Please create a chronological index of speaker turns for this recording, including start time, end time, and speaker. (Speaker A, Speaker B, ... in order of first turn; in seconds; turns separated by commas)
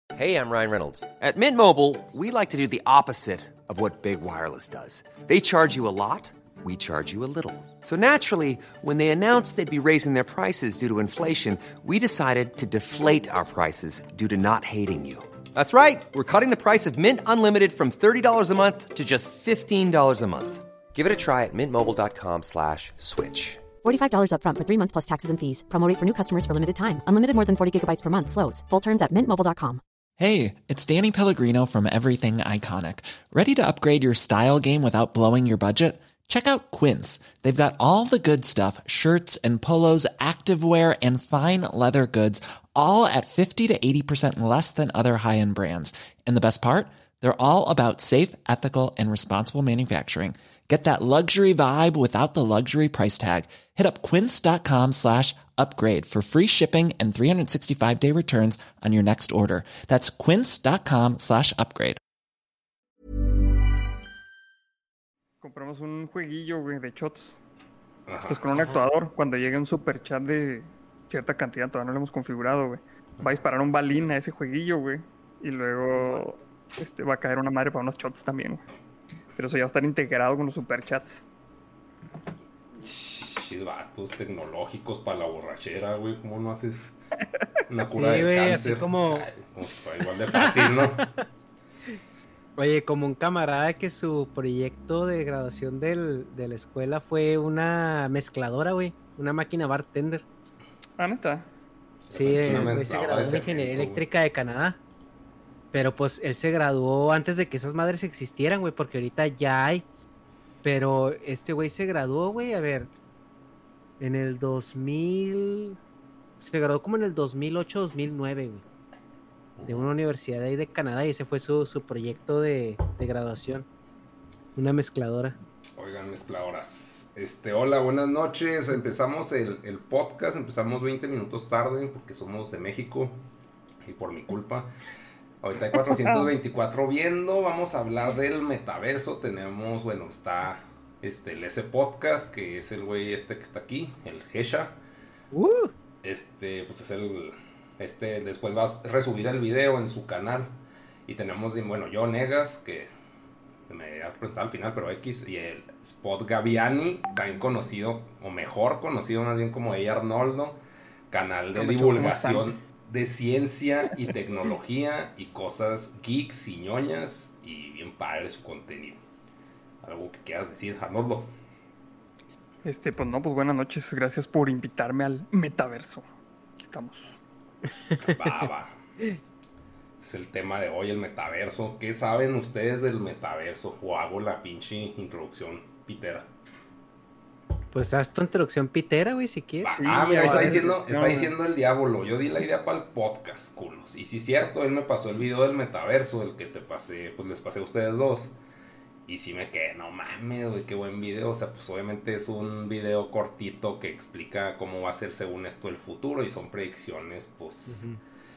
Speaker A: 0.1-23.7, Speaker B: 23.8-29.8, Speaker C: 30.2-62.0, Speaker D: 65.4-67.4, Speaker E: 68.0-68.7, Speaker D: 68.3-78.6, Speaker D: 79.4-81.2, Speaker E: 82.9-87.0, Speaker E: 87.7-91.1, Speaker F: 87.9-89.3, Speaker F: 90.4-90.7, Speaker F: 92.6-100.2, Speaker D: 101.0-101.5, Speaker E: 102.1-104.0, Speaker F: 102.1-104.8, Speaker F: 105.7-109.8, Speaker F: 110.6-112.9, Speaker F: 114.0-115.8, Speaker F: 116.4-118.6, Speaker E: 119.5-119.9, Speaker F: 119.7-123.7, Speaker F: 124.5-125.4, Speaker E: 125.8-133.2, Speaker E: 133.8-134.7, Speaker E: 135.4-144.8, Speaker D: 135.9-136.3, Speaker F: 145.3-145.7, Speaker E: 146.0-152.9, Speaker E: 153.7-160.6, Speaker E: 161.1-169.0, Speaker D: 161.5-162.5, Speaker E: 169.8-171.3, Speaker D: 172.6-176.0, Speaker D: 176.6-177.2, Speaker E: 178.0-178.8, Speaker E: 180.0-186.3, Speaker F: 187.7-190.7, Speaker E: 189.6-198.3, Speaker D: 189.7-191.3, Speaker E: 199.1-207.8, Speaker F: 207.7-208.0